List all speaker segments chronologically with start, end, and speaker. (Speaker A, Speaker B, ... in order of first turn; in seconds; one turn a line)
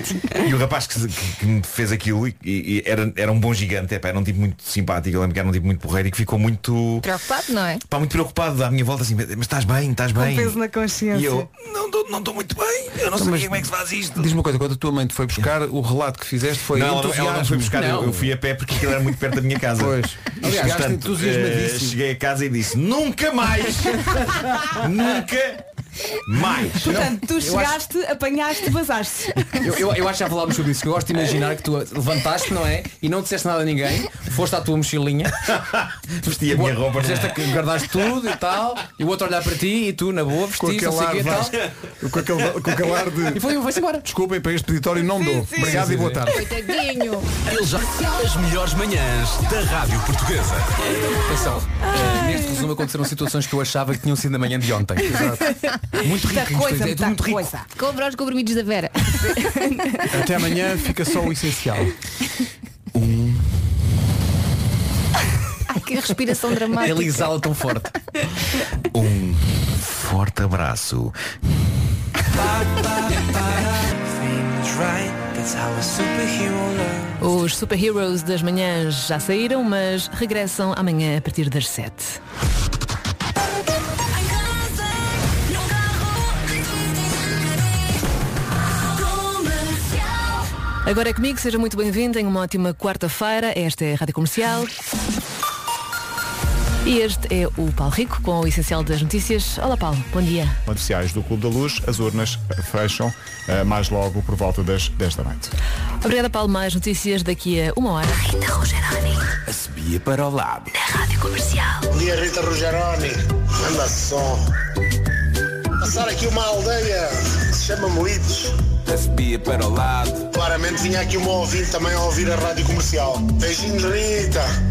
Speaker A: 0.3-7.1
Speaker B: 7.0-7.8
Speaker A: 7.9-14.4
Speaker C: 10.1-11.5
Speaker D: 13.2-13.6
Speaker D: 14.2-17.7
Speaker A: 16.7-27.1
Speaker E: 17.7-18.3
Speaker D: 19.8-22.0
Speaker E: 20.4-20.8
Speaker C: 26.8-29.7
Speaker E: 26.8-27.8
Speaker E: 29.6-35.4
Speaker A: 35.4-38.1
Speaker E: 36.4-41.7
Speaker D: 40.6-43.4
Speaker E: 43.3-44.1
Speaker D: 44.0-46.5
Speaker C: 45.2-45.8
Speaker E: 45.5-46.3
Speaker B: 46.3-47.3
Speaker F: 47.5-50.8
Speaker E: 51.2-55.4
Speaker D: 55.0-55.5
Speaker E: 56.0-57.4
Speaker C: 56.0-57.7
Speaker B: 57.8-59.4
Speaker C: 59.3-60.0
Speaker D: 60.1-62.0
Speaker A: 63.0-63.4
Speaker B: 65.7-67.4
Speaker E: 66.8-68.0
Speaker A: 68.9-71.2
Speaker F: 72.4-77.2
Speaker G: 77.2-82.2
Speaker G: 90.8-94.7
Speaker G: 96.8-100.6
Speaker H: 100.7-105.5
Speaker G: 106.0-109.2
Speaker F: 109.5-110.8
Speaker G: 111.0-111.8
Speaker I: 111.9-114.4
Speaker I: 115.8-118.5
Speaker F: 118.9-120.2
Speaker I: 120.3-124.5